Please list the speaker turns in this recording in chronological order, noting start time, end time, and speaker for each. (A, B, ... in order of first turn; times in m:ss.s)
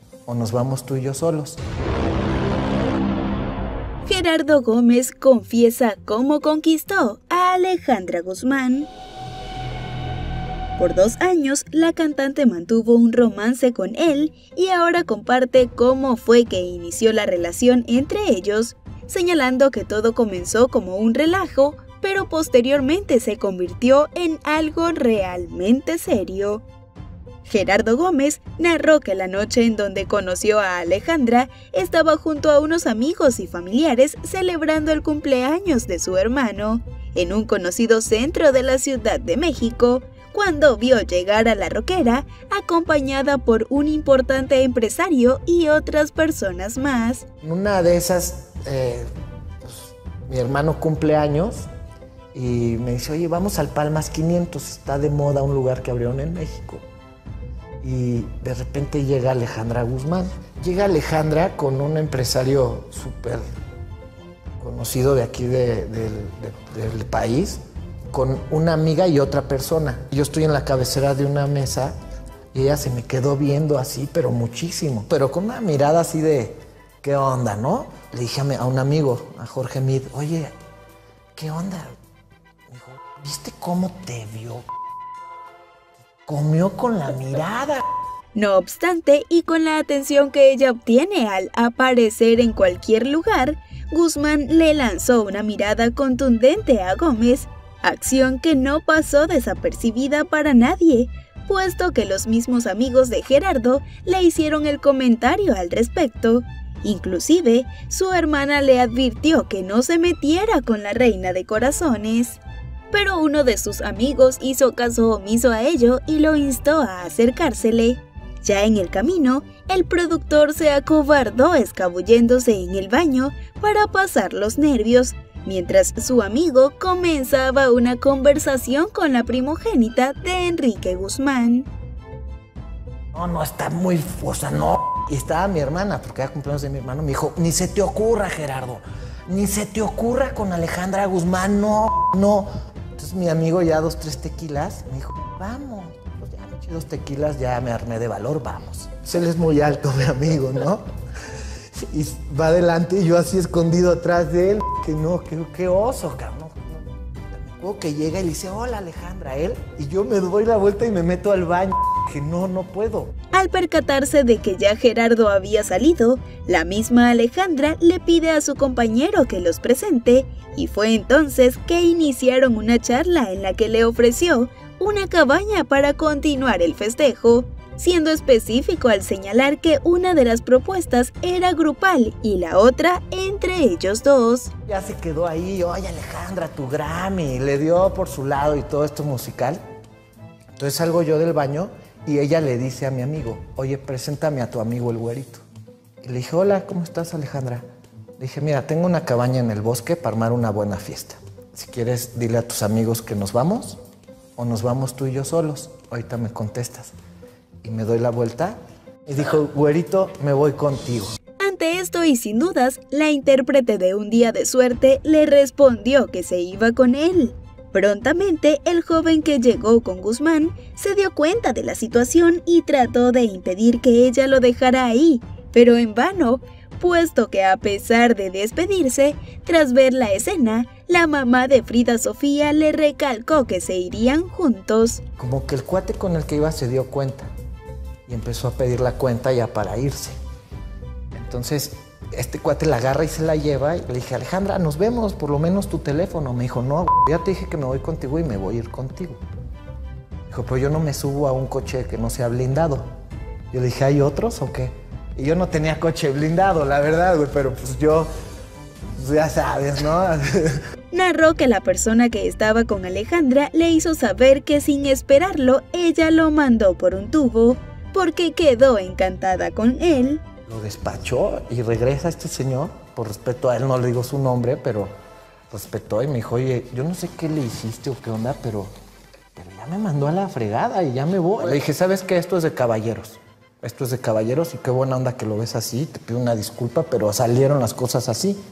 0:00.2-0:01.6 A
0:04.0-0:08.9 B
0:10.8-0:26.6 B
0:27.4-0:47.2 B
0:47.4-0:49.1 A
0:49.6-0:51.7 A
0:52.3-0:56.8 A
0:57.8-1:03.4 A
1:04.6-1:11.9 A
1:12.5-1:20.5 A
1:21.3-1:22.0 A
1:22.7-1:24.6 A
1:26.2-1:27.8 A
1:28.3-1:52.4 B
1:52.9-2:11.7 B
2:13.1-2:30.8 A
2:31.7-2:43.1 A
2:43.3-3:04.5 B
3:04.7-3:09.6 A
3:10.5-3:15.4 A
3:16.0-3:17.6 A
3:18.2-3:23.8 A
3:24.4-3:26.9 A
3:27.6-3:31.1 A
3:31.4-3:55.0 B
3:55.2-3:57.3 A
3:58.0-4:00.2 A
4:01.1-4:09.2 A
4:10.3-4:12.9 A
4:13.5-4:18.1 A
4:19.0-4:20.6 A
4:20.9-4:30.2 B
4:30.5-4:34.9 A
4:35.5-4:38.7 A
4:39.3-4:48.4 A